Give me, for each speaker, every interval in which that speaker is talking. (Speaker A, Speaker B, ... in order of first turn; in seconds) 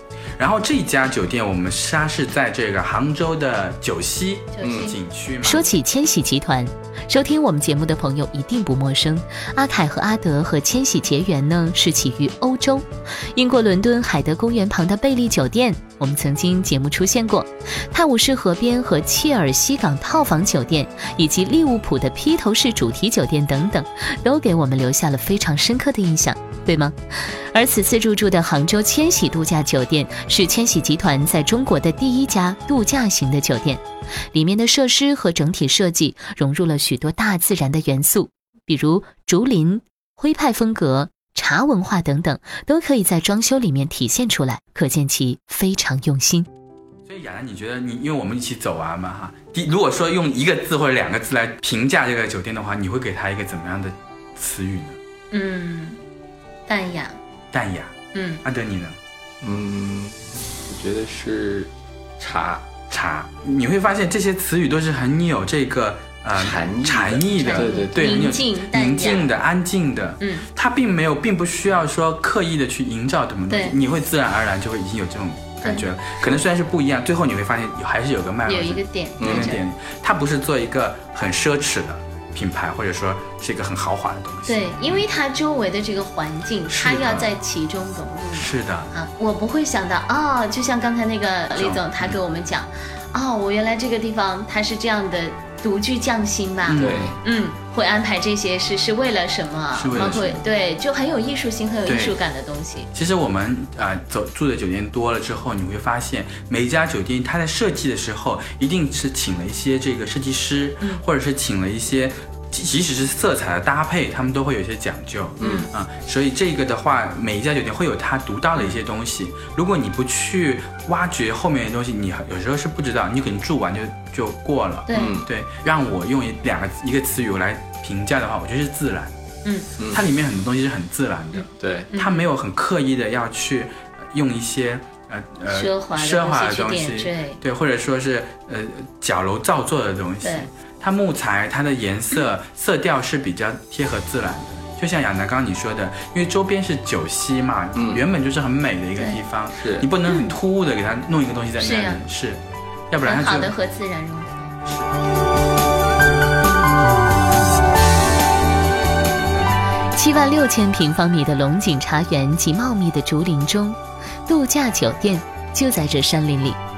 Speaker A: 0.4-5.7, 47.1-55.0, 57.5-59.0, 62.9-85.0, 86.7-87.3, 88.3-88.9, 91.5-92.2, 96.7-97.2, 99.7-100.4, 101.9-102.1, 102.9-129.1, 129.9-153.5, 154.7-154.9
Speaker B: 4.5-4.9, 55.3-56.0, 56.7-57.2, 58.1-58.4, 67.4-69.3, 70.2-70.5, 73.5-73.8, 78.5-79.6, 84.5-102.9, 115.4-115.7, 124.9-125.2, 131.9-132.3, 135.5-137.4, 140.2-140.5, 151.6-152.0, 153.0-154.6
Speaker C: 4.6-4.9, 59.4-60.1, 60.7-62.7, 66.3-68.3, 79.2-79.6, 96.8-97.2, 100.0-100.2, 115.4-115.7, 124.9-125.3, 129.8-130.0, 131.5-131.9, 147.8-148.0, 149.6-149.9
Speaker D: 5.4-33.8, 34.3-46.5, 159.9-166.6